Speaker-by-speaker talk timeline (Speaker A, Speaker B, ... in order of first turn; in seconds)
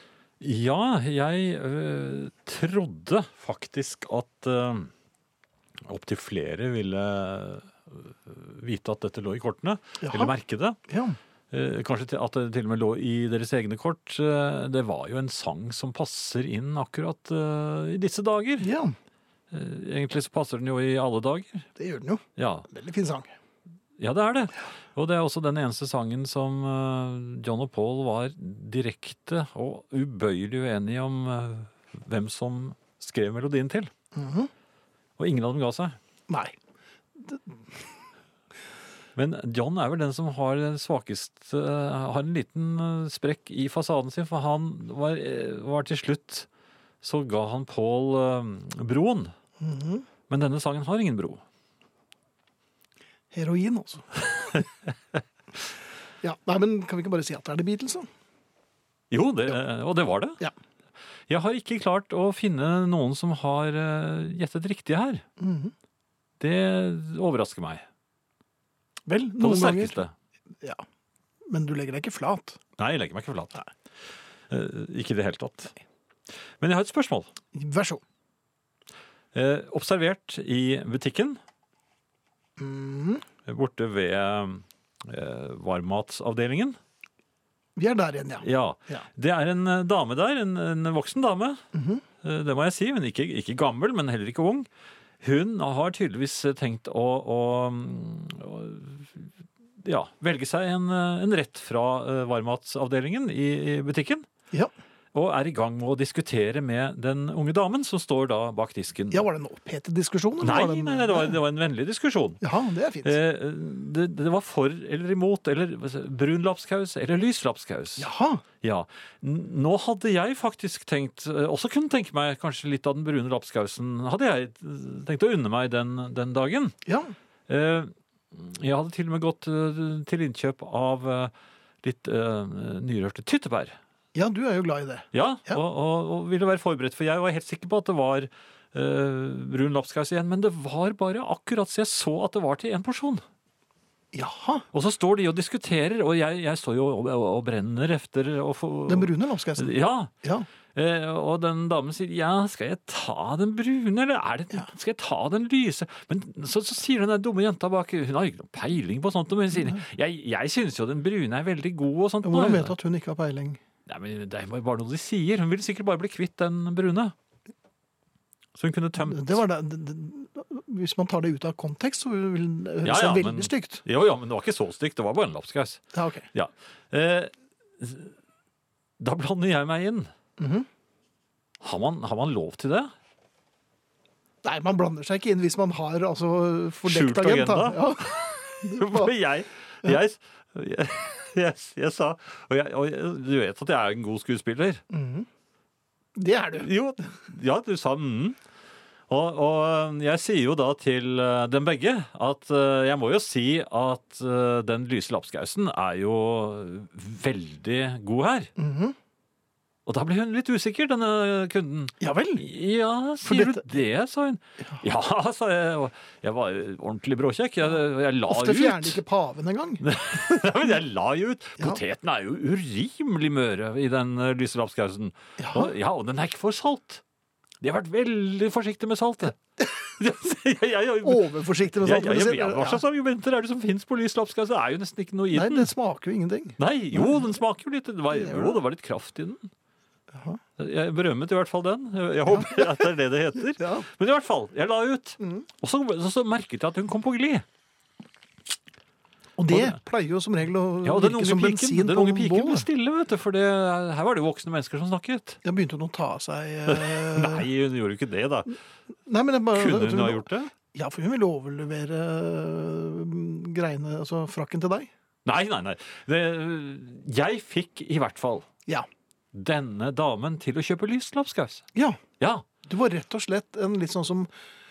Speaker A: 0.4-4.9, 5.8-10.8, 11.5-18.7, 19.5-21.7, 22.4-22.7, 24.0-33.9, 35.2-36.0, 39.1-46.5, 47.0-49.3, 50.3-51.4, 59.1-60.4, 61.3-65.2, 66.4-67.8, 69.4-70.1, 72.8-73.6, 74.5-75.7, 76.6-77.3, 79.3-81.4, 83.5-86.8, 88.4-91.6, 92.2-94.7, 95.2-99.3, 99.8-104.2, 105.1-109.2, 110.4-112.4, 113.0-118.1, 118.6-126.8, 127.5-131.3, 131.8-133.8, 135.1-143.2, 144.7-150.1, 150.7-162.7, 163.9-167.1, 168.6-169.4, 172.8-178.1, 179.0-180.1, 181.6-182.9, 186.8-194.8, 196.6-198.4, 199.1-208.5, 209.8-219.0, 219.8-227.0, 227.6-235.7, 236.6-239.5, 240.6-247.4, 249.5-249.8, 250.8-255.4, 256.7-258.5, 259.5-260.5, 265.2-268.5, 269.3-271.7
Speaker B: 10.0-10.3, 10.9-11.2, 18.6-18.9, 21.8-23.3, 34.1-34.5, 36.3-36.5, 37.2-37.4, 49.6-50.0, 53.3-54.1, 56.2-58.1, 65.4-65.7, 69.1-70.0, 71.5-72.6, 77.5-78.0, 82.6-83.2, 87.8-89.0, 91.7-92.0, 109.1-111.3, 112.4-113.1, 118.0-118.4, 126.8-127.1, 134.1-135.6, 144.1-144.7, 148.9-150.5, 159.6-159.8, 162.2-163.6, 169.0-173.8, 175.9-176.3, 180.4-180.7, 184.4-189.1, 194.9-195.3, 196.2-196.7, 208.6-208.9, 212.0-212.4, 213.2-213.8, 218.3-219.8, 225.4-225.7, 231.0-232.8, 235.3-237.3, 238.1-238.6, 240.1-240.4, 242.3-242.7, 243.6-243.9, 245.2-245.4, 249.4-252.7, 255.4-257.4, 259.1-264.9, 271.7-272.0, 272.6-274.3